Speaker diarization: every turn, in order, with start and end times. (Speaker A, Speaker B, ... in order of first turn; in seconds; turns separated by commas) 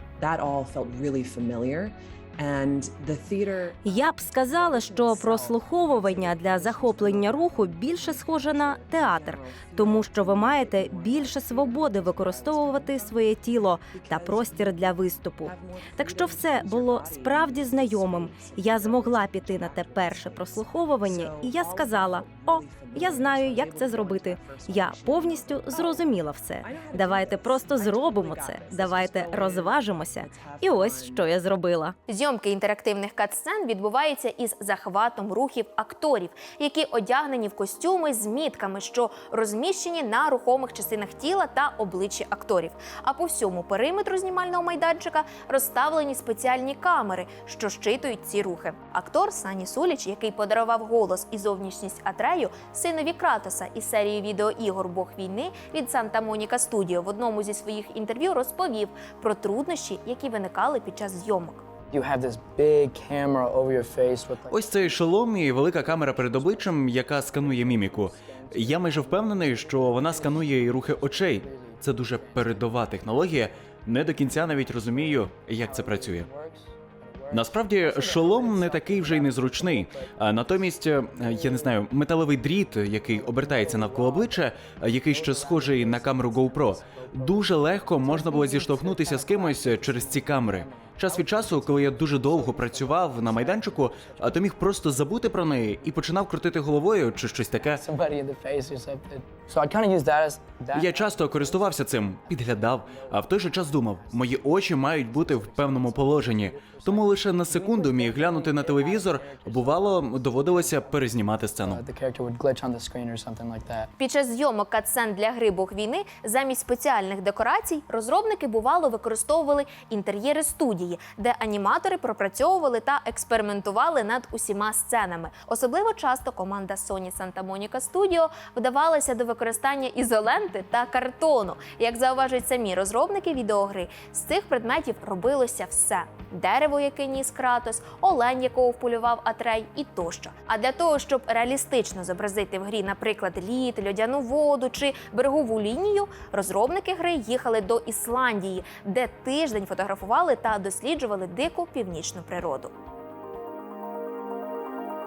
Speaker A: 0.2-26.1, Speaker B: 3.8-31.9, Speaker A: 26.6-31.3, Speaker C: 32.1-61.6, Speaker D: 61.9-65.0, Speaker E: 64.5-76.3, Speaker D: 65.8-73.4, Speaker D: 74.2-81.8, Speaker E: 77.3-97.8, Speaker D: 83.0-84.4, Speaker D: 85.1-96.1, Speaker D: 96.9-113.9, Speaker E: 100.7-111.8, Speaker C: 114.0-152.7